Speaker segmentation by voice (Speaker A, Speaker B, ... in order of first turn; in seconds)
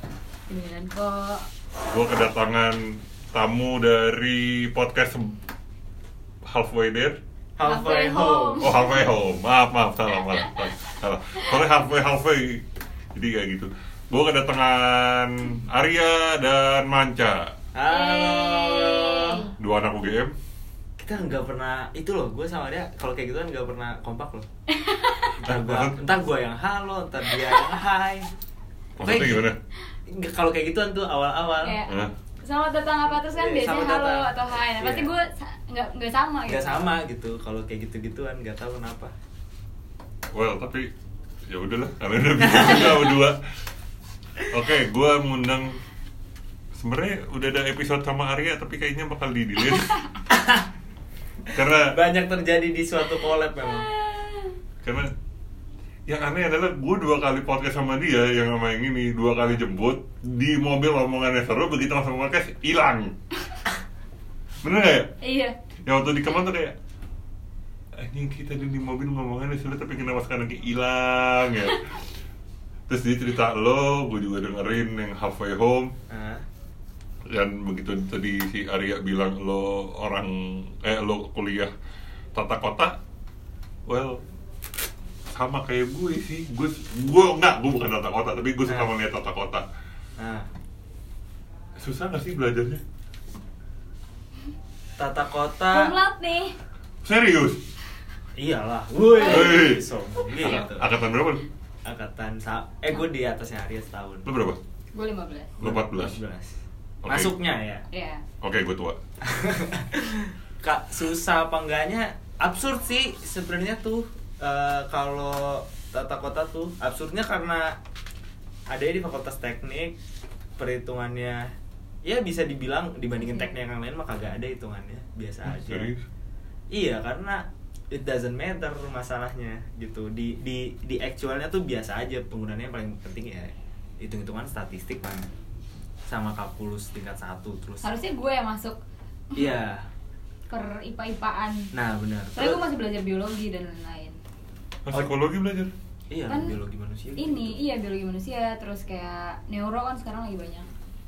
Speaker A: 0.5-1.5, 7.6-9.0, 17.9-19.5, 24.7-25.4, 27.3-27.7, 31.6-37.0, 53.6-54.5, 65.2-65.5, 95.7-96.5, 99.2-99.6, 104.9-105.5, 107.9-108.2, 123.2-123.5, 137.8-138.8, 139.3-139.6, 140.5-141.7, 142.3-144.2, 146.3-146.6, 147.2-150.7
Speaker B: 1.9-5.3, 6.4-7.2, 8.6-17.5, 19.6-20.3, 25.4-26.0, 29.0-29.6, 31.9-32.1, 40.3-40.9, 41.5-43.4, 44.4-45.7, 46.8-50.0, 51.5-51.9, 54.8-55.1, 56.1-63.2, 64.6-65.1, 65.8-66.8, 68.0-71.8, 72.9-75.9, 77.2-81.7, 82.3-83.0, 83.9-84.2, 85.3-89.6, 91.8-92.8, 97.0-97.6, 99.2-99.9, 100.4-101.5, 104.2-104.6, 105.6-106.2, 107.0-107.3, 108.4-109.0, 125.5-126.0, 144.8-145.7
Speaker C: 7.6-8.7, 17.7-19.5, 21.0-24.4, 25.4-28.3, 29.0-29.5, 30.1-31.8, 33.1-35.1, 36.5-39.1, 42.4-43.1, 50.3-50.7, 51.5-53.9, 76.1-76.4, 88.7-88.9, 90.2-90.5, 95.0-95.9, 98.3-100.9, 101.8-104.3, 105.6-107.8, 109.2-117.8, 118.7-120.0, 120.6-121.5, 122.0-125.9, 126.7-135.3, 136.1-137.9, 139.3-139.9, 141.7-142.6, 146.1-147.6